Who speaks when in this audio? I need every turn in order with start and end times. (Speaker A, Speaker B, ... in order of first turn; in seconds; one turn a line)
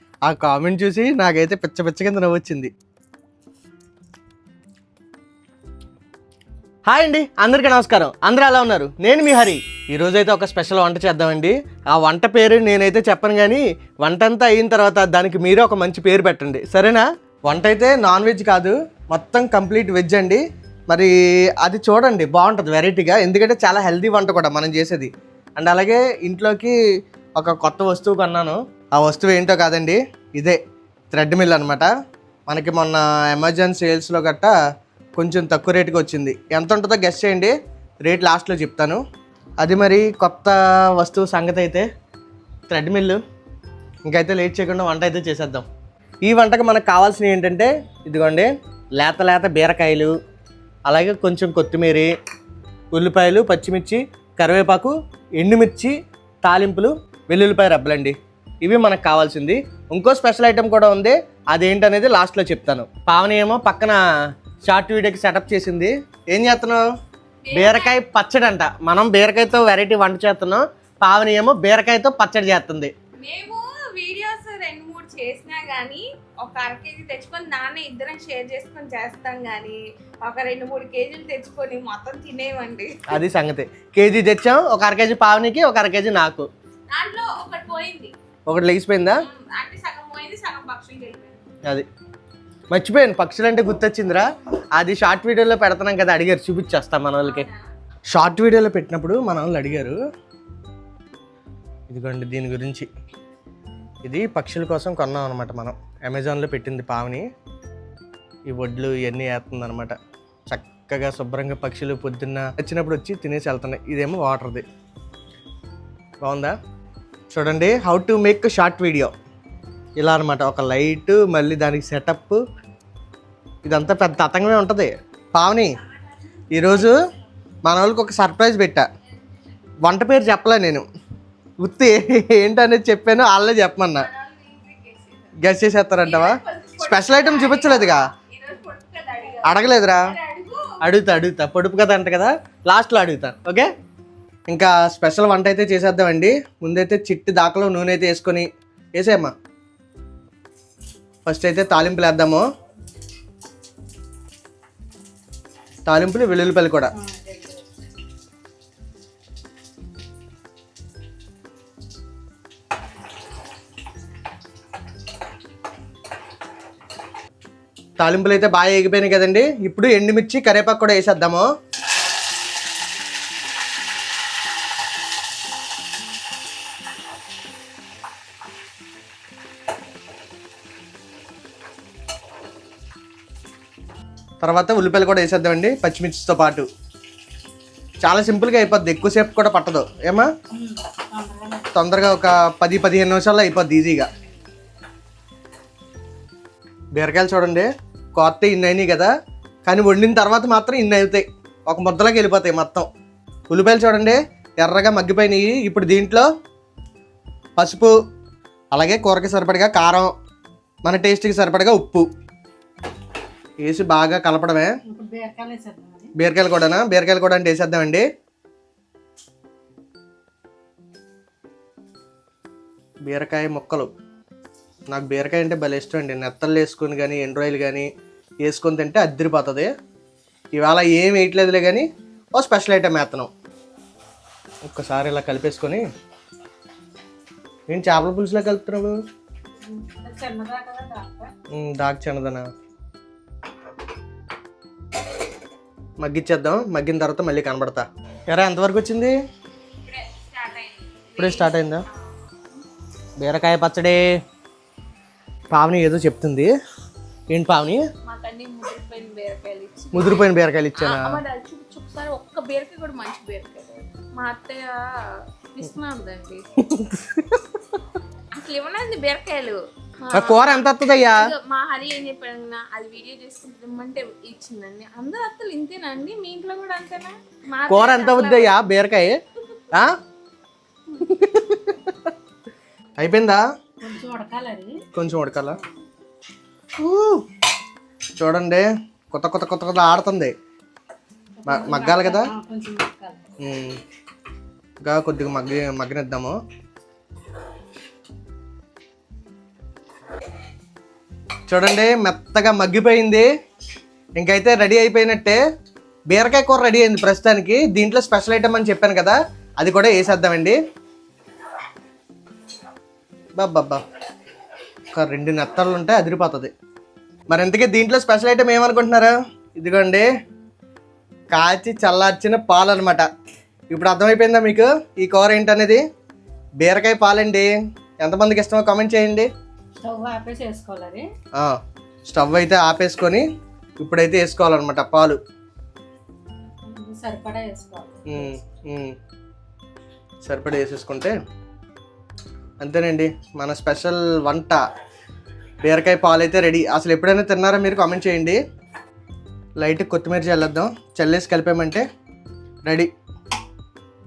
Speaker A: 0.2-2.7
Speaker A: 6.8-26.7
Speaker A: 27.4-30.6
Speaker A: 31.1-31.9
Speaker A: 32.5-34.5
Speaker A: 35.2-37.5
Speaker A: 38.0-39.0
Speaker A: 39.6-41.9
Speaker A: 42.7-43.2
Speaker A: 44.1-45.6
Speaker A: 46.2-50.1
Speaker A: 50.9-52.1
Speaker A: 52.9-64.0
Speaker A: 64.6-66.8
Speaker B: 67.4-68.0
Speaker A: 67.5-72.9
Speaker B: 73.2-83.2
Speaker A: 83.1-86.5
Speaker B: 86.9-88.1
Speaker A: 88.5-89.2
Speaker B: 89.2-91.4
Speaker A: 92.7-97.5
Speaker B: 97.2-97.6
Speaker A: 98.1-100.0
Speaker A: 101.9-102.9
Speaker A: 104.0-107.3
Speaker A: 108.5-110.0
Speaker A: 110.5-114.6
Speaker A: 116.2-116.5
Speaker A: 117.3-119.1
Speaker A: 120.0-122.4
Speaker A: 123.6-125.8
Speaker A: 126.5-127.0
Speaker A: 127.7-128.9
Speaker A: 129.8-130.8
Speaker A: 131.6-134.1
Speaker B: 134.0-135.4
Speaker A: 135.3-138.1
Speaker B: 136.0-140.8
Speaker A: 139.4-140.1
Speaker A: 140.8-143.7
Speaker A: 144.5-149.3
Speaker A: 151.2-152.4
Speaker A: 155.8-156.9
Speaker C: 156.9-157.7
Speaker A: 168.0-171.5
Speaker A: 184.4-186.7
Speaker A: 188.0-190.3
Speaker C: 190.5-191.7
Speaker A: 191.7-194.1
Speaker A: 196.9-199.1
Speaker A: 199.7-202.9
Speaker A: 203.5-206.3
Speaker A: 207.6-207.9
Speaker A: 208.7-210.1
Speaker A: 210.8-212.1
Speaker A: 213.6-214.7
Speaker C: 214.9-216.1
Speaker A: 216.2-218.1
Speaker A: 223.1-223.9
Speaker A: 224.9-227.9
Speaker A: 228.4-229.7
Speaker A: 230.6-233.3
Speaker A: 234.7-235.8
Speaker A: 237.7-239.0
Speaker C: 239.6-241.3
Speaker A: 241.5-242.5
Speaker A: 246.0-249.1
Speaker B: 249.8-252.1
Speaker A: 251.2-251.8
Speaker A: 253.2-254.0
Speaker A: 255.5-256.5
Speaker A: 257.3-257.8
Speaker B: 258.0-266.4
Speaker A: 259.9-261.2
Speaker A: 266.6-267.8
Speaker B: 268.3-278.6
Speaker A: 270.1-271.3
Speaker A: 277.7-279.2
Speaker A: 281.0-282.1
Speaker A: 283.0-283.4
Speaker C: 283.8-284.8
Speaker A: 284.9-285.6
Speaker A: 286.8-287.2
Speaker A: 288.2-290.3
Speaker C: 291.4-293.2
Speaker A: 291.5-292.3
Speaker A: 293.4-293.8
Speaker A: 294.8-296.4
Speaker A: 301.5-303.3
Speaker A: 304.2-305.4
Speaker A: 306.1-310.6
Speaker A: 313.4-313.8
Speaker A: 314.9-316.5
Speaker A: 317.3-320.1
Speaker A: 321.3-323.1
Speaker A: 323.7-325.8
Speaker A: 326.6-329.3
Speaker C: 329.8-331.1
Speaker A: 332.1-333.2
Speaker A: 333.8-335.2
Speaker C: 336.6-338.4
Speaker A: 338.1-338.9
Speaker A: 340.2-341.1
Speaker A: 342.6-344.6
Speaker A: 345.6-348.4
Speaker A: 349.6-351.8